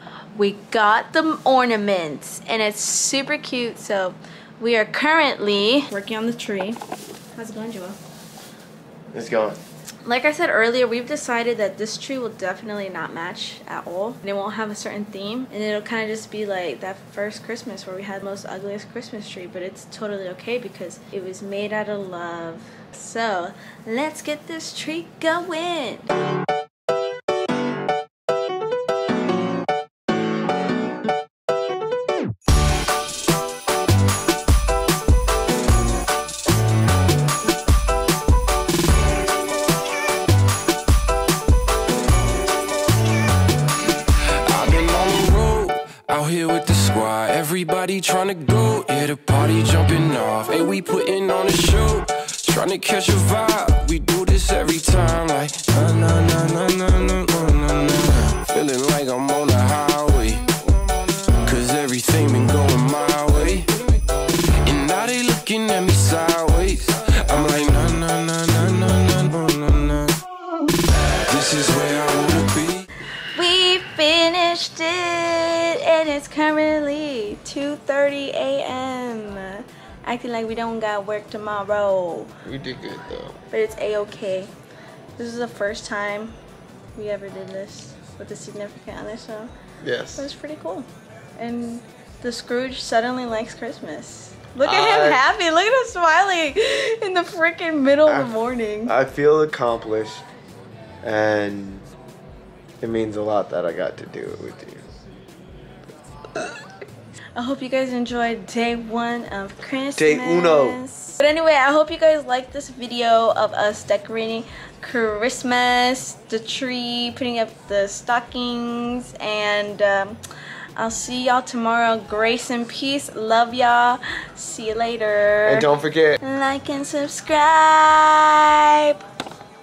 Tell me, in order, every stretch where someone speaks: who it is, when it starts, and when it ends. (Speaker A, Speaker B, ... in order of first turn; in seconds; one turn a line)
Speaker A: 0.3-6.8
Speaker A: 7.3-8.0
Speaker B: 9.1-9.6
Speaker A: 10.0-26.1
Speaker C: 44.5-60.4
Speaker C: 61.4-63.7
Speaker C: 64.3-70.2
Speaker C: 71.3-72.8
Speaker A: 73.3-82.3
Speaker B: 82.4-83.3
Speaker A: 83.5-84.5
Speaker A: 85.2-86.3
Speaker A: 86.9-89.5
Speaker B: 89.8-90.2
Speaker A: 90.2-99.0
Speaker B: 94.6-95.2
Speaker B: 98.1-98.3
Speaker B: 98.9-100.2
Speaker B: 101.0-101.9
Speaker B: 102.8-104.9
Speaker A: 107.3-120.2
Speaker B: 110.0-110.8
Speaker A: 120.8-125.7
Speaker B: 125.4-126.2
Speaker A: 126.2-129.0